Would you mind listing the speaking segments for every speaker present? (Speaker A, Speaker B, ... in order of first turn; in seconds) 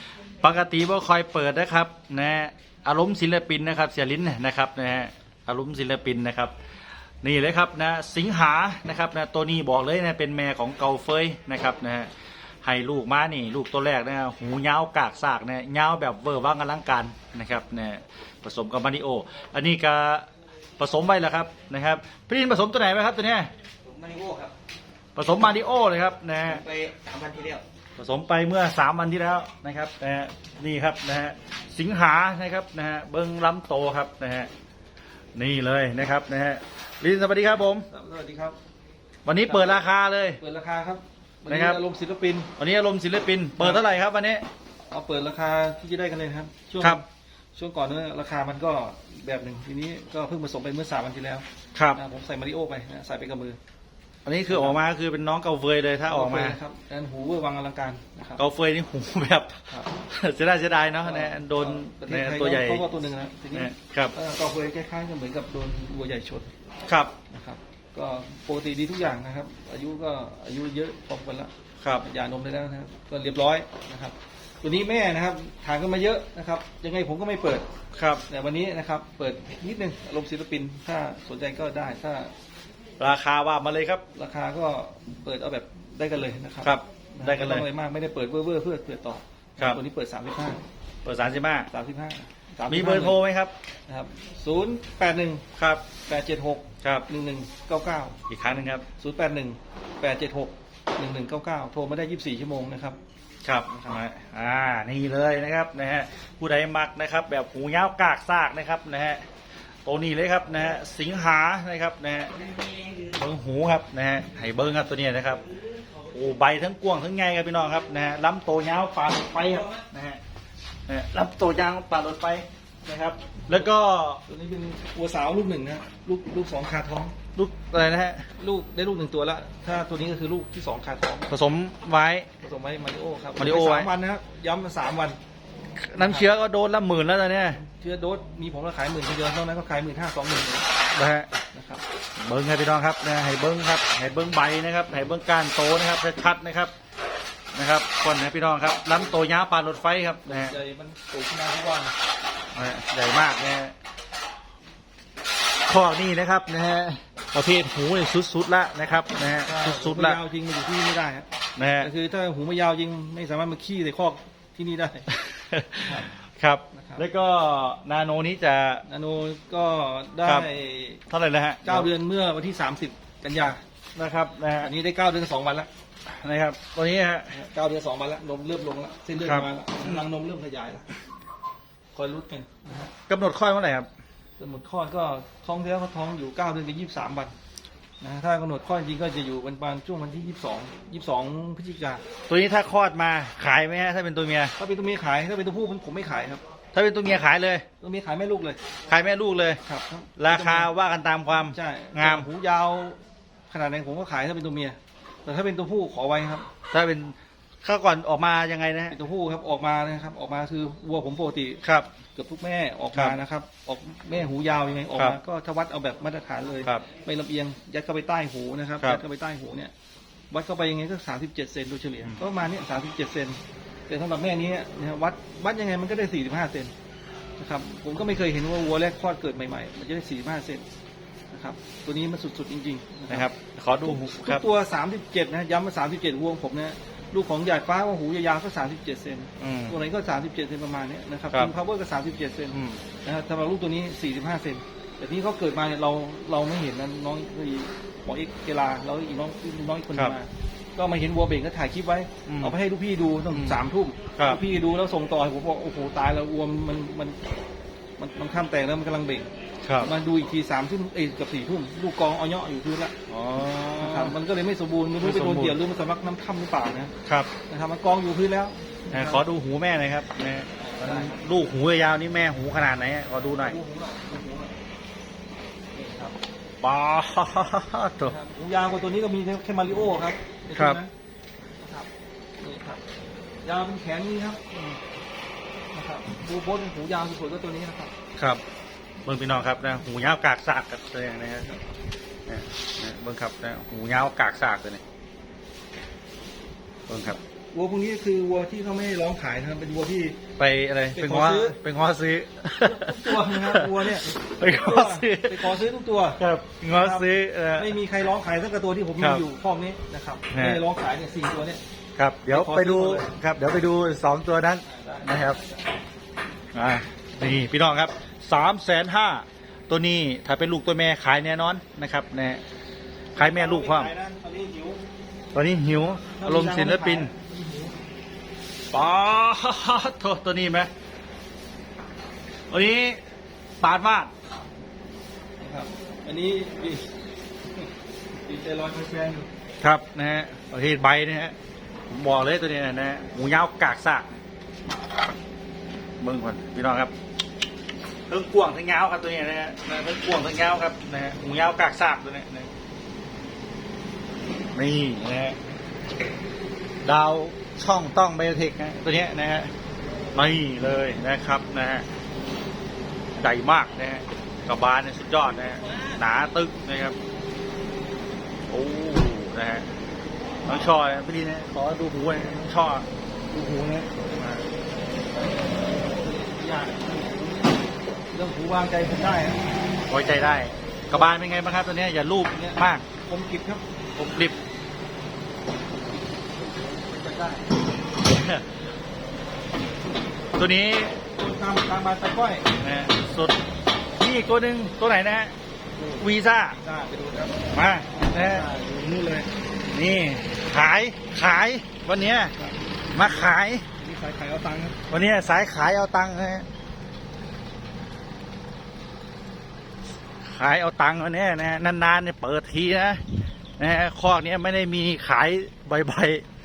Speaker A: 0.4-6.5, 7.2-12.1, 12.6-20.3, 20.8-23.5, 25.1-26.9, 28.0-34.5, 35.3-37.9, 39.2-40.4, 41.5-41.8, 42.6-44.4, 51.7-52.0, 54.2-56.6, 58.4-62.9, 63.5-64.1, 66.9-67.2, 71.8-72.1, 77.9-78.2, 83.0-84.0, 86.6-87.7, 91.0-91.7, 92.7-93.5, 95.5-95.9, 96.8-97.1, 98.3-98.9, 103.4-109.2, 109.8-115.5, 116.0-120.2, 120.9-124.2, 127.3-128.2, 131.3-132.3, 133.4-133.9, 135.7-137.7, 140.9-141.3, 142.2-146.7, 147.5-150.5, 152.5-153.7, 155.7-160.2, 161.6-161.9, 165.3-168.8, 171.1-171.9, 173.9-174.7, 176.1-177.4, 179.2-180.0, 183.1-183.9, 192.3-194.5, 196.7-197.7, 198.9-199.6, 200.2-202.3, 206.7-209.0, 211.6-211.9, 214.9-215.2, 233.1-234.4, 239.4-239.8, 242.5-242.9, 252.2-252.5, 253.3-253.6, 254.2-254.4, 259.6-259.9, 263.1-264.1, 265.0-265.6, 267.1-267.3, 268.9-273.6, 276.6-278.1, 288.1-288.4, 289.0-291.5, 292.3-294.8, 296.9-297.2, 300.4-305.4, 306.2-307.7, 309.0-309.2, 310.3-310.6, 311.9-315.4, 316.5-322.4, 323.1-323.9, 325.3-327.1, 328.7-330.7, 332.5-333.0, 333.6-334.1, 339.6-341.4, 341.9-344.1, 346.0-346.9, 348.1-352.5, 354.5-355.4, 356.8-359.5, 360.1-361.9, 363.1-366.9, 368.5-369.7, 370.4-372.9, 374.0-374.4, 379.9-382.9, 383.9-384.4, 388.0-388.6, 390.4-391.0, 392.5-393.4, 393.9-395.3, 396.0-396.6, 397.5-398.5, 399.7-402.3, 402.9-403.7, 404.9-406.4, 410.2-413.0, 413.6-416.2
Speaker B: 37.9-38.6, 39.5-39.9, 40.4-42.5, 43.6-43.8, 44.9-53.6, 54.5-54.8, 56.1-58.4, 61.0-66.5, 67.3-77.7, 78.2-82.3, 84.1-90.6, 91.7-93.2, 93.9-95.5, 96.0-98.2, 99.0-103.0, 103.7-104.0, 124.3-127.1, 128.4-131.3, 132.4-135.2, 136.0-136.3, 137.6-140.7, 141.5-141.8, 150.2-151.9, 159.4-161.3, 161.8-165.1, 165.8-166.1, 166.7-167.0, 168.9-171.0, 171.6-173.6, 174.6-175.7, 177.3-180.9, 181.9-182.9, 184.4-187.3, 188.0-192.0, 194.6-196.4, 197.8-198.6, 199.6-200.7, 201.4-203.0, 203.5-206.5, 208.9-211.6, 212.1-219.7, 220.3-226.7, 227.4-230.6, 231.3-233.3, 233.8-257.2, 258.0-259.3, 259.8-262.9, 263.8-269.2, 270.6-271.2, 273.3-274.6, 275.7-276.2, 278.0-280.9, 281.6-282.8, 283.4-284.8, 285.7-287.9, 297.5-300.2, 300.9-301.6, 302.6-306.2, 306.7-311.6, 312.3-313.1, 314.6-315.6, 323.1-324.8, 326.2-327.8, 335.4-336.9, 338.2-339.3, 373.3-374.1, 375.1-379.4, 382.3-383.6, 385.9-387.4, 391.1-392.5, 395.7-399.3, 402.4-404.8